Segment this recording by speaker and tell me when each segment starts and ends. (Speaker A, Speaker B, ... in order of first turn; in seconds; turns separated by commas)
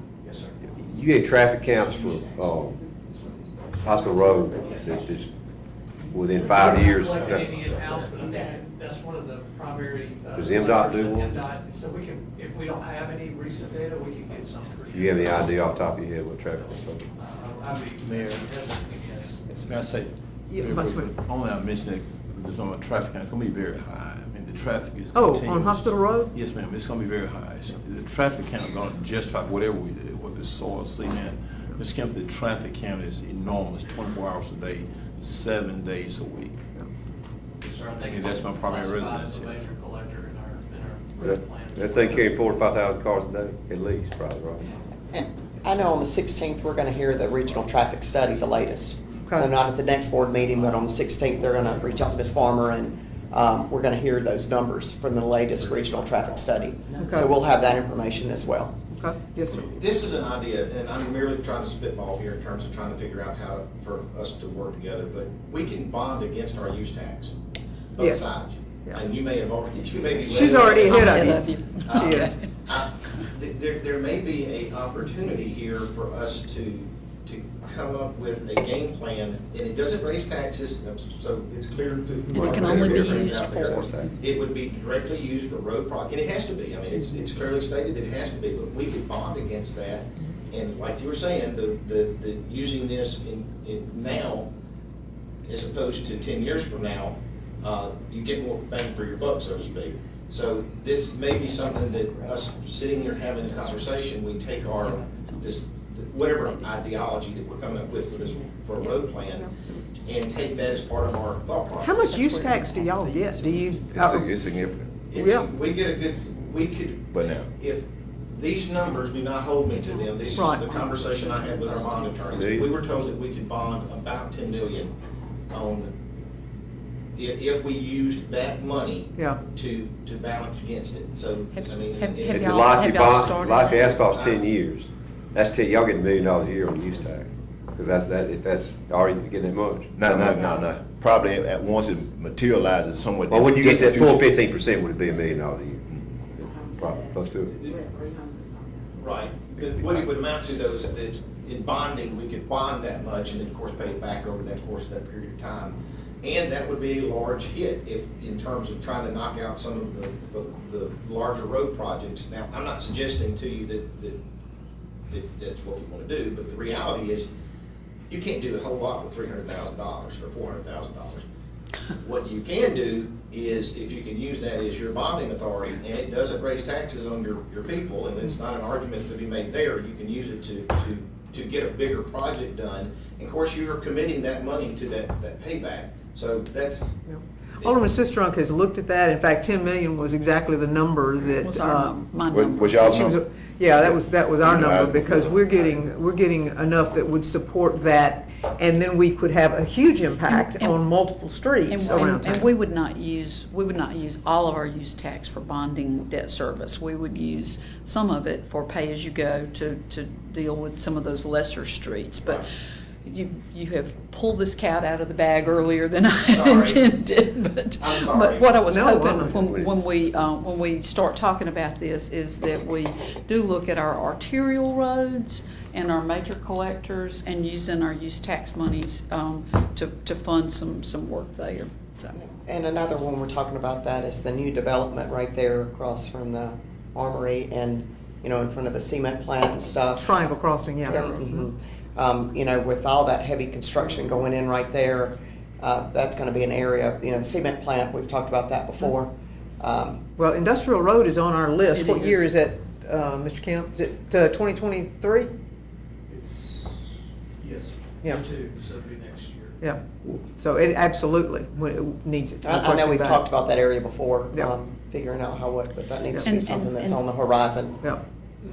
Speaker A: 0.2-0.7, Speaker B: 0.7-2.8, Speaker A: 1.8-2.2, Speaker B: 3.8-5.3, Speaker A: 4.6-4.9, Speaker B: 6.1-7.6, Speaker A: 6.1-15.5, Speaker C: 7.5-8.1, Speaker B: 10.3-11.4, Speaker B: 14.9-17.1, Speaker A: 16.6-19.3, Speaker D: 18.0-36.6, Speaker E: 20.5-21.1, Speaker E: 25.1-26.3, Speaker A: 37.6-42.4, Speaker D: 38.0-39.7, Speaker B: 41.2-44.7, Speaker F: 45.1-58.7, Speaker E: 57.0-57.3, Speaker E: 58.9-59.6, Speaker C: 59.4-67.3, Speaker C: 67.9-94.5, Speaker E: 68.0-68.3, Speaker E: 70.2-72.3, Speaker G: 70.7-72.4, Speaker G: 82.3-83.9, Speaker B: 82.5-84.1, Speaker C: 95.5-109.5, Speaker G: 104.8-105.5, Speaker C: 110.0-112.1, Speaker E: 111.8-114.4, Speaker G: 111.8-113.8, Speaker H: 113.9-115.0, Speaker C: 115.1-124.9, Speaker E: 115.1-115.5, Speaker H: 117.1-117.5, Speaker E: 120.4-120.6, Speaker B: 122.2-122.7, Speaker C: 125.5-125.9, Speaker C: 127.2-132.8, Speaker G: 131.5-134.0, Speaker B: 132.3-140.5, Speaker C: 134.0-134.5, Speaker H: 139.9-144.3, Speaker B: 143.3-147.6, Speaker C: 149.0-164.2, Speaker C: 165.1-167.3, Speaker C: 168.1-171.2, Speaker C: 171.9-187.0, Speaker E: 187.1-191.9, Speaker G: 191.4-193.1, Speaker H: 192.3-193.2, Speaker E: 192.8-202.5, Speaker H: 193.8-195.4, Speaker G: 200.3-200.8, Speaker G: 201.7-212.4, Speaker G: 213.0-232.1, Speaker C: 216.2-216.9, Speaker C: 217.8-218.5, Speaker E: 218.7-219.4, Speaker B: 219.3-219.7, Speaker F: 232.2-240.2, Speaker E: 239.9-241.5, Speaker F: 240.8-250.0, Speaker E: 250.2-255.3, Speaker G: 251.7-252.3, Speaker A: 256.1-259.6, Speaker E: 259.6-263.2, Speaker F: 262.4-267.8, Speaker G: 266.2-267.0